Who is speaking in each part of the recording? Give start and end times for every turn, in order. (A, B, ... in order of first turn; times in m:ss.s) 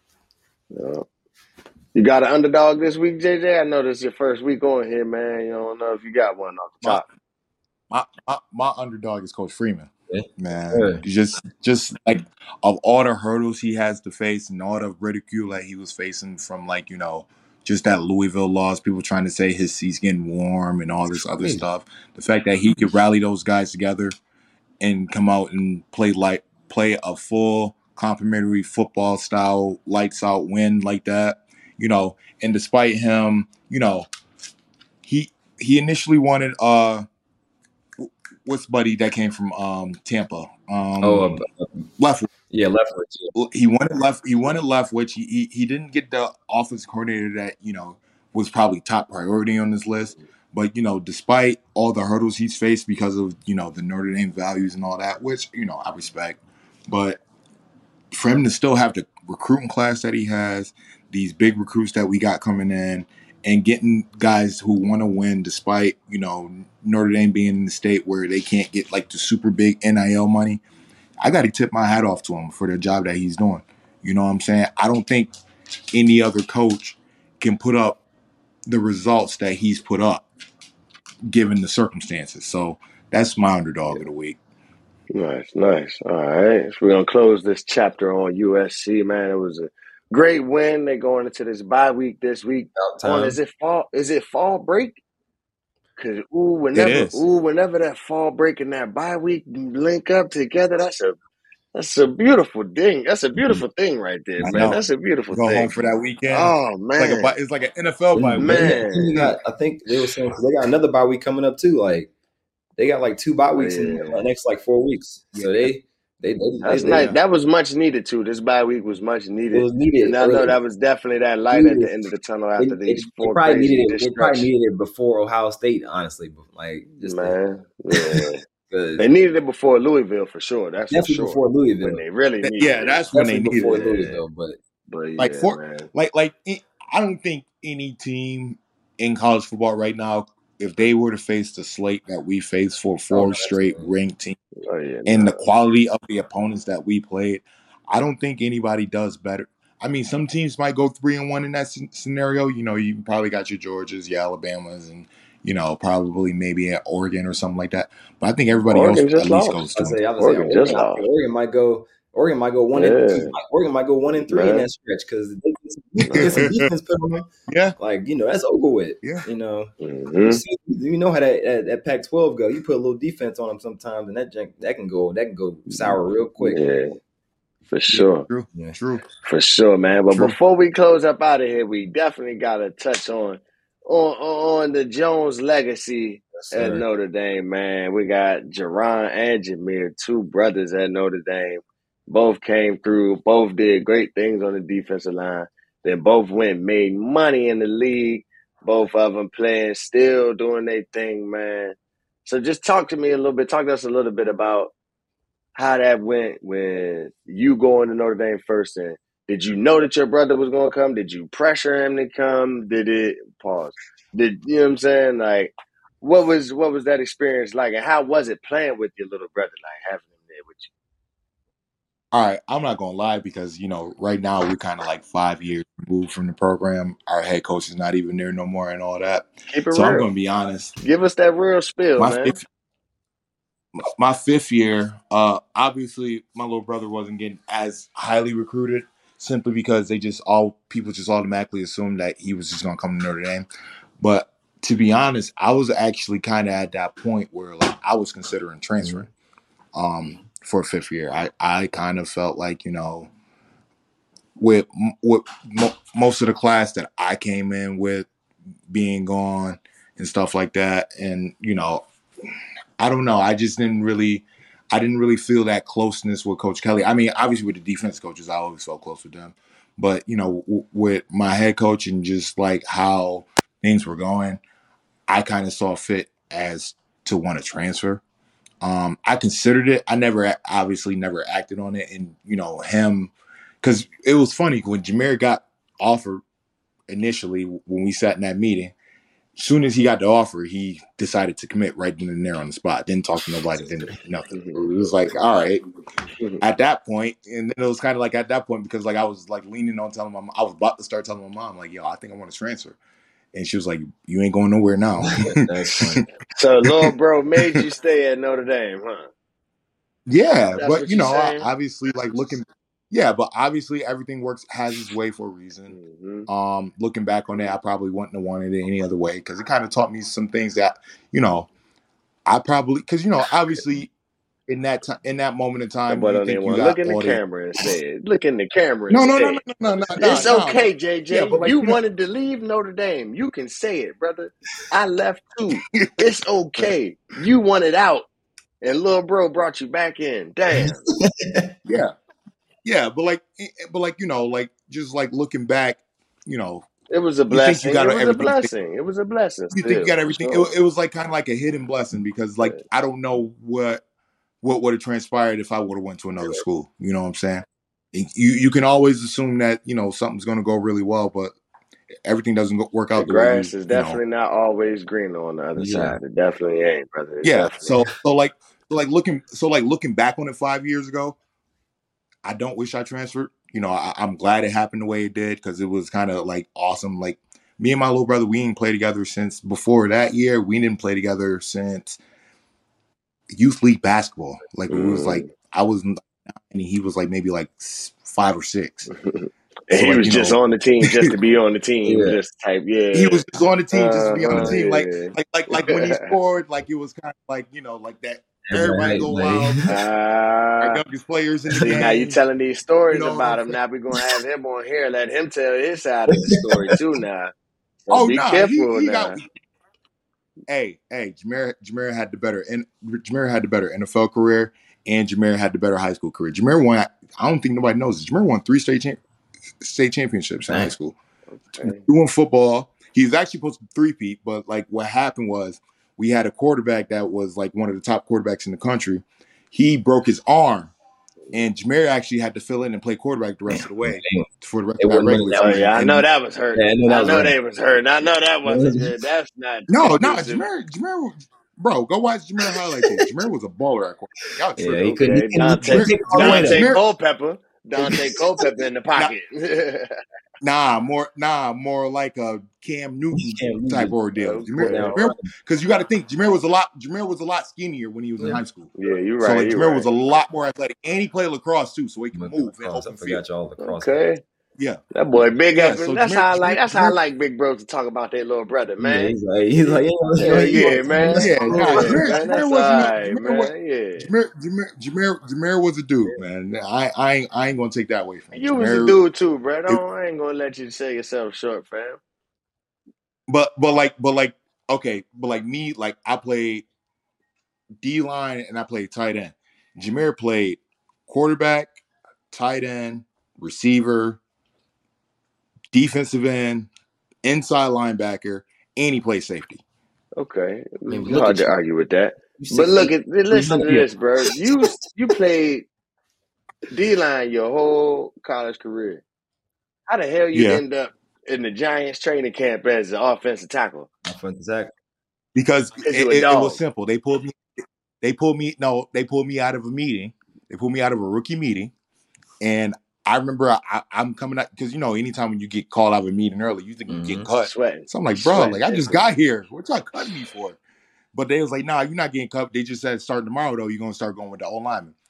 0:00.7-0:01.1 A
0:02.0-0:07.1 A
0:07.9-0:24.1 B
0:10.1-0:11.0 C
0:24.8-0:34.1 B
0:35.0-0:37.0 B
0:38.0-0:41.4 B
0:41.0-0:41.9 C
0:42.0-0:42.3 B
0:42.5-0:43.4 C
0:43.4-0:57.2 B
0:58.1-1:10.6 B
1:11.2-1:15.3 B
1:15.9-1:18.0 B
1:18.7-1:20.3 B
1:21.3-1:24.4 B
1:25.1-1:35.0 A
1:32.8-1:33.4 C
1:36.0-1:41.2 A
1:36.7-1:37.2 B
1:41.7-1:45.7 A
1:44.4-1:44.8 B
1:45.3-1:49.4 B
1:46.3-1:47.4 A
1:48.2-1:52.1 C
1:48.4-1:49.2 A
1:52.8-1:57.1 C
1:53.6-1:54.2 A
1:55.3-1:55.7 B
1:56.6-2:04.5 A
1:56.9-1:57.2 B
1:59.5-2:00.6 C
2:01.5-2:01.9 C
2:02.6-2:07.4 C
2:07.0-2:08.4 A
2:07.9-2:09.0 C
2:09.0-2:14.2 A
2:10.9-2:12.0 C
2:12.4-2:14.0 B
2:13.1-2:14.6 C
2:14.9-2:15.9 A
2:15.2-2:24.4 B
2:23.1-2:23.9 C
2:24.6-2:25.4 A
2:25.1-2:40.0 B
2:38.7-2:39.6 A
2:39.8-2:49.7 C
2:40.2-2:41.0 A
2:42.7-2:43.4 A
2:44.3-2:44.7 A
2:46.0-2:46.7 B
2:46.1-2:46.4 A
2:47.5-2:47.8 B
2:49.8-2:50.4 A
2:50.2-2:56.6 C
2:55.7-2:57.0 A
2:57.7-2:58.3 A
2:57.9-2:59.0 B
2:59.2-3:24.7 A
3:06.4-3:06.8 C
3:25.6-3:40.7 A
3:42.1-3:50.7 B
3:49.5-3:50.1 A
3:50.8-3:52.4 A
3:52.0-3:52.4 B
3:53.8-4:03.5 B
4:04.0-4:09.1 B
4:09.8-4:13.1 B
4:14.4-4:18.1 B
4:18.7-4:21.8 B
4:22.8-4:34.4 B
4:35.1-4:38.0 B
4:38.6-4:46.2 B
4:46.9-4:48.7 B
4:49.4-4:55.6 B
4:54.3-4:54.6 A
4:56.4-5:02.8 B
5:03.3-5:05.4 B
5:05.0-5:06.1 C
5:06.3-5:09.1 A
5:06.6-5:07.6 B
5:10.1-5:15.8 B
5:10.6-5:11.5 A
5:15.7-5:16.3 A
5:16.3-5:21.5 B
5:22.3-5:23.9 B
5:24.5-5:27.2 B
5:25.9-5:29.4 A
5:28.9-5:31.8 B
5:30.0-5:38.0 A
5:35.7-5:36.0 B
5:38.6-5:40.8 A
5:40.5-5:41.5 C
5:41.6-5:41.9 B
5:42.6-5:46.7 B
5:46.9-5:50.5 A
5:47.3-5:48.5 B
5:49.5-5:53.8 B
5:54.4-6:01.4 B
6:02.0-6:04.0 B
6:03.0-6:07.7 A
6:05.6-6:06.0 C
6:07.2-6:11.2 B
6:12.2-6:22.0 B
6:23.3-6:28.9 B
6:24.7-6:25.3 A
6:28.9-6:36.1 A
6:29.7-6:31.1 B
6:31.9-6:32.2 C
6:32.9-6:39.8 B
6:34.3-6:34.5 C
6:38.5-6:39.7 C
6:39.7-6:40.8 A
6:40.6-6:42.2 B
6:41.6-6:47.3 A
6:42.9-6:43.5 B
6:46.3-6:46.8 C
6:47.9-6:49.2 A
6:47.9-6:49.2 B
6:50.5-6:59.0 B
6:59.6-7:01.0 B
7:01.5-7:01.9 A
7:01.6-7:10.7 B
7:11.3-7:15.8 B
7:13.5-7:14.3 C
7:14.8-7:16.0 C
7:15.4-7:20.4 A
7:16.6-7:17.3 C
7:18.5-7:19.0 C
7:19.7-7:24.9 B
7:24.6-7:26.7 C
7:24.8-7:30.0 A
7:25.7-7:26.8 B
7:27.8-7:28.2 C
7:30.4-7:43.2 B
7:33.2-7:34.0 C
7:34.2-7:35.0 A
7:34.6-7:35.3 C
7:38.8-7:39.9 A
7:42.1-7:43.9 C
7:43.6-7:44.2 A
7:44.9-7:54.1 A
7:45.6-7:47.0 B
7:48.8-7:52.1 C
7:50.4-7:59.0 B
7:58.3-8:02.0 A
8:03.3-8:06.7 B
8:07.8-8:11.7 B
8:12.3-8:14.2 B
8:15.7-8:16.7 B
8:17.2-8:19.6 B
8:20.2-8:25.7 A
8:20.9-8:21.6 C
8:22.4-8:24.8 C
8:26.7-8:29.0 A
8:29.9-8:33.9 A
8:30.3-8:30.6 B
8:34.1-8:34.7 C
8:35.4-8:37.4 B
8:35.8-8:36.6 A
8:38.0-8:41.7 B
8:42.4-8:50.6 B
8:46.9-8:47.3 C
8:47.4-8:49.1 A
8:51.1-8:55.0 B